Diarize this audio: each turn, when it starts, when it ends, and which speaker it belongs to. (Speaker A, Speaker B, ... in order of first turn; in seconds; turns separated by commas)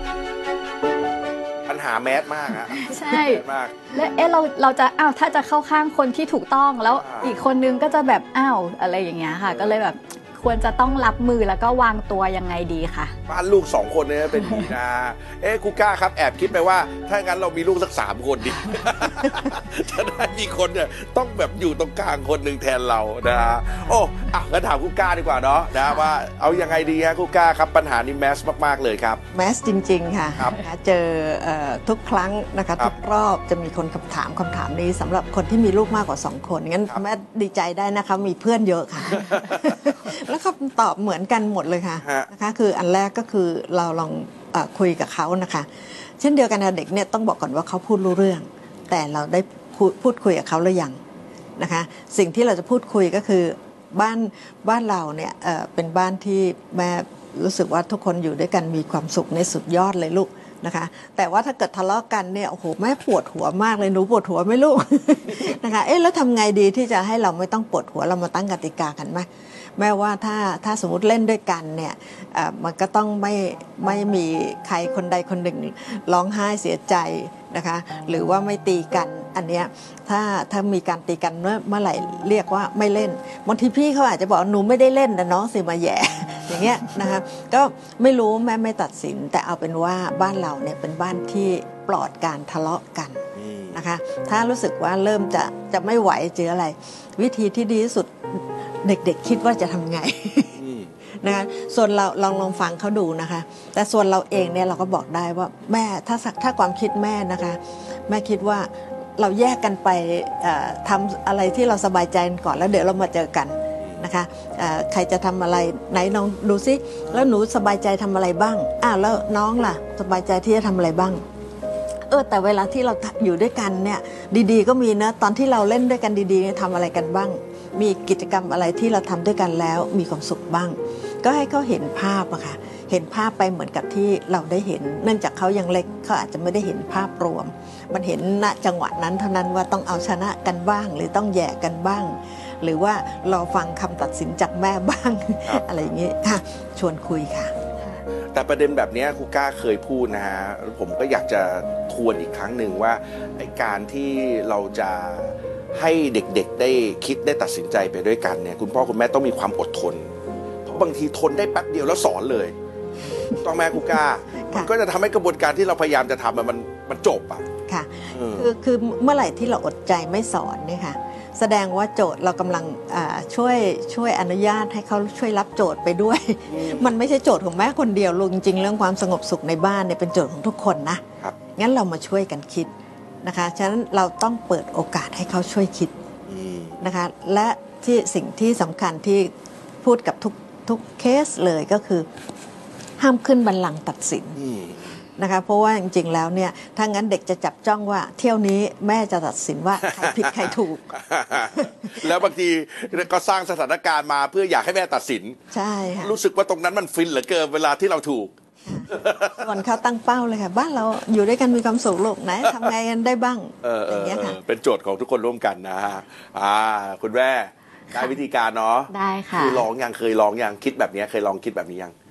Speaker A: 1.7-3.8, Speaker B: 2.6-13.1, Speaker A: 6.9-7.3, Speaker A: 9.5-9.7, Speaker A: 13.3-29.2, Speaker B: 14.3-14.7, Speaker C: 29.3-51.0, Speaker A: 39.1-39.8, Speaker A: 42.0-42.3, Speaker C: 51.6-93.2, Speaker A: 93.4-93.8, Speaker C: 93.7-100.6, Speaker A: 100.6-100.9, Speaker C: 101.2-121.2, Speaker A: 113.8-114.1, Speaker A: 117.0-117.3, Speaker C: 122.1-147.6, Speaker A: 148.3-160.1, Speaker A: 160.7-162.6, Speaker A: 163.4-167.5, Speaker C: 167.7-181.0, Speaker A: 168.1-168.5, Speaker A: 176.5-176.9, Speaker C: 181.6-182.7, Speaker C: 183.2-185.9, Speaker A: 186.3-186.8, Speaker C: 186.8-189.3, Speaker C: 189.8-192.1, Speaker C: 193.0-194.4, Speaker A: 194.4-195.0, Speaker C: 195.2-202.3, Speaker A: 199.9-205.4, Speaker C: 205.5-206.2, Speaker A: 206.0-209.5, Speaker C: 208.7-214.4, Speaker A: 213.6-221.9, Speaker B: 218.9-219.7